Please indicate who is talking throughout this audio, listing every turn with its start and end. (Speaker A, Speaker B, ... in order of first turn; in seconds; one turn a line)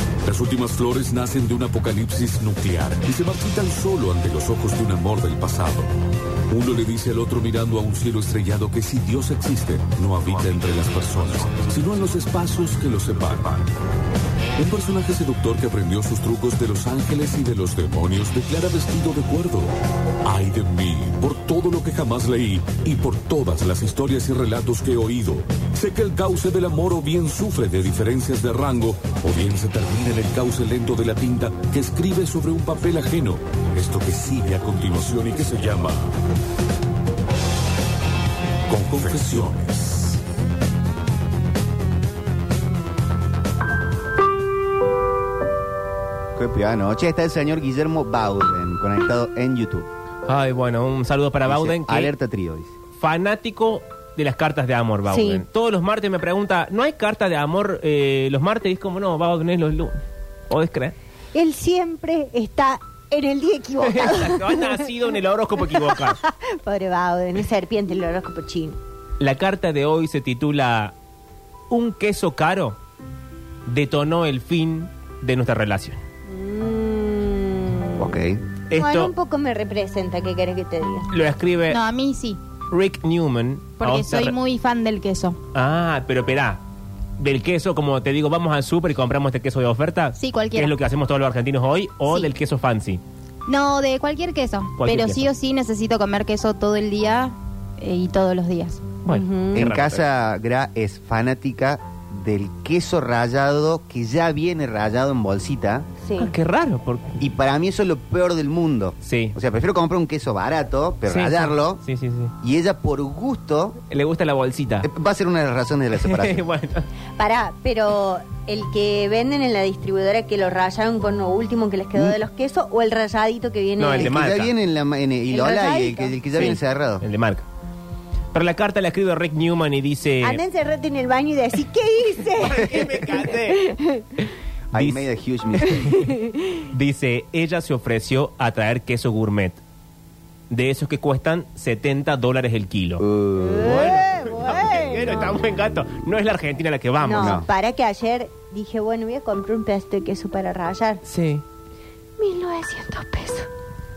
Speaker A: 0.2-5.9
Speaker A: 6.5-13.7
Speaker A: 14.6-19.7
Speaker A: 20.2-36.1
Speaker A: 38.7-40.2
Speaker B: 46.4-49.9
Speaker C: 50.3-52.1
Speaker B: 51.4-52.7
Speaker C: 53.0-60.9
Speaker D: 55.0-55.4
Speaker D: 61.3-64.9
Speaker C: 63.8-66.2
Speaker D: 65.7-68.8
Speaker C: 69.2-70.9
Speaker C: 71.7-72.8
Speaker C: 73.7-76.0
Speaker D: 76.3-78.1
Speaker B: 78.0-78.4
Speaker C: 78.7-79.1
Speaker D: 78.8-81.1
Speaker C: 81.1-81.8
Speaker E: 81.7-82.4
Speaker C: 82.7-84.3
Speaker E: 83.8-85.4
Speaker C: 85.5-86.6
Speaker C: 87.2-93.0
Speaker E: 90.2-90.7
Speaker E: 92.0-92.3
Speaker E: 93.5-98.9
Speaker C: 94.8-95.3
Speaker C: 99.0-100.0
Speaker D: 99.1-99.7
Speaker B: 99.5-105.9
Speaker D: 106.0-106.3
Speaker C: 106.2-107.2
Speaker B: 107.2-111.8
Speaker C: 109.0-109.4
Speaker C: 111.0-112.3
Speaker B: 112.4-113.8
Speaker C: 113.9-114.9
Speaker B: 114.8-116.4
Speaker C: 115.9-116.9
Speaker D: 117.2-124.2
Speaker C: 123.8-124.5
Speaker B: 124.0-127.0
Speaker D: 125.3-126.6
Speaker C: 126.4-127.5
Speaker C: 128.3-130.4
Speaker D: 130.2-134.2
Speaker C: 132.4-133.7
Speaker B: 134.7-135.8
Speaker C: 134.7-135.1
Speaker D: 135.6-136.4
Speaker C: 135.7-136.1
Speaker C: 136.7-139.6
Speaker C: 140.5-143.0
Speaker B: 143.0-143.9
Speaker D: 143.3-145.4
Speaker C: 143.6-147.4
Speaker D: 147.0-151.0
Speaker B: 147.2-147.5
Speaker C: 151.0-151.4
Speaker D: 152.2-153.5